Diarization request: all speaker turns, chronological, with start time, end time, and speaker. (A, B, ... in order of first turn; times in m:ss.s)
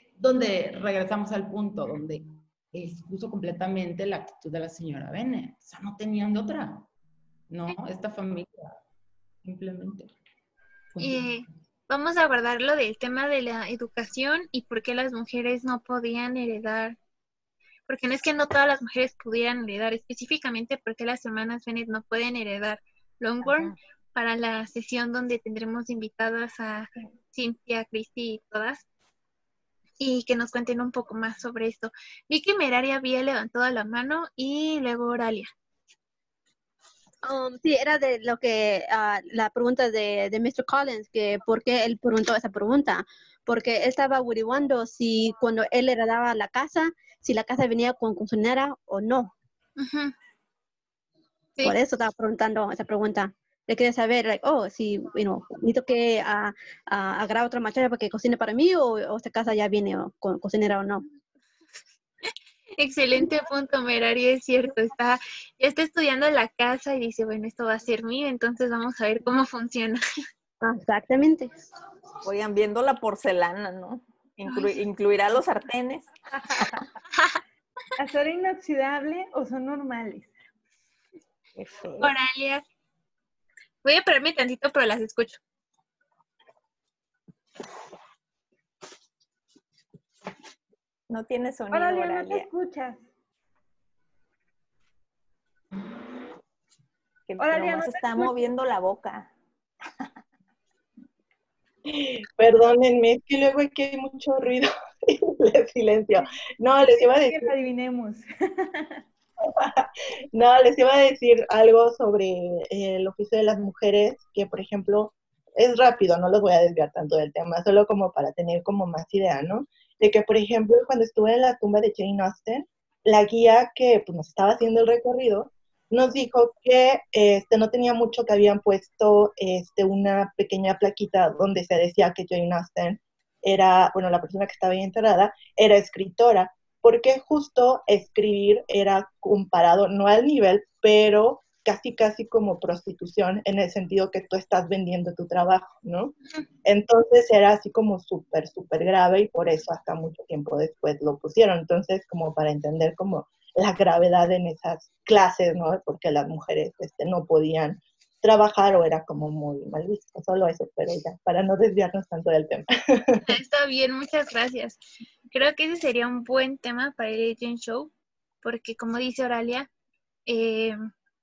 0:00.1-0:06.8 A
0:07.5-0:08.7 A
0:09.4-0:10.1 A
0:10.9-0:11.4 A
0:11.0-0:17.0 B
0:17.9-0:28.8 B
0:23.4-0:23.8 C
0:30.0-0:35.5 B
0:37.2-0:49.3 D
0:49.8-0:50.1 B
0:51.6-1:01.0 D
1:02.8-1:10.0 B
1:10.6-1:11.5 D
1:12.2-1:16.8 C
1:14.5-1:14.8 B
1:18.0-1:20.3 E
1:21.6-1:22.1 C
1:22.0-1:22.6 B
1:23.8-1:25.4 B
1:31.1-1:32.5 C
1:31.7-1:33.1 E
1:37.3-1:39.3 C
1:37.4-1:38.4 E
1:41.9-1:47.5 F
1:47.1-1:49.0 E
1:49.6-2:43.2 F
2:43.3-2:44.8 B
2:45.3-2:47.9 B
2:48.4-2:49.7 B
2:50.3-2:50.8 B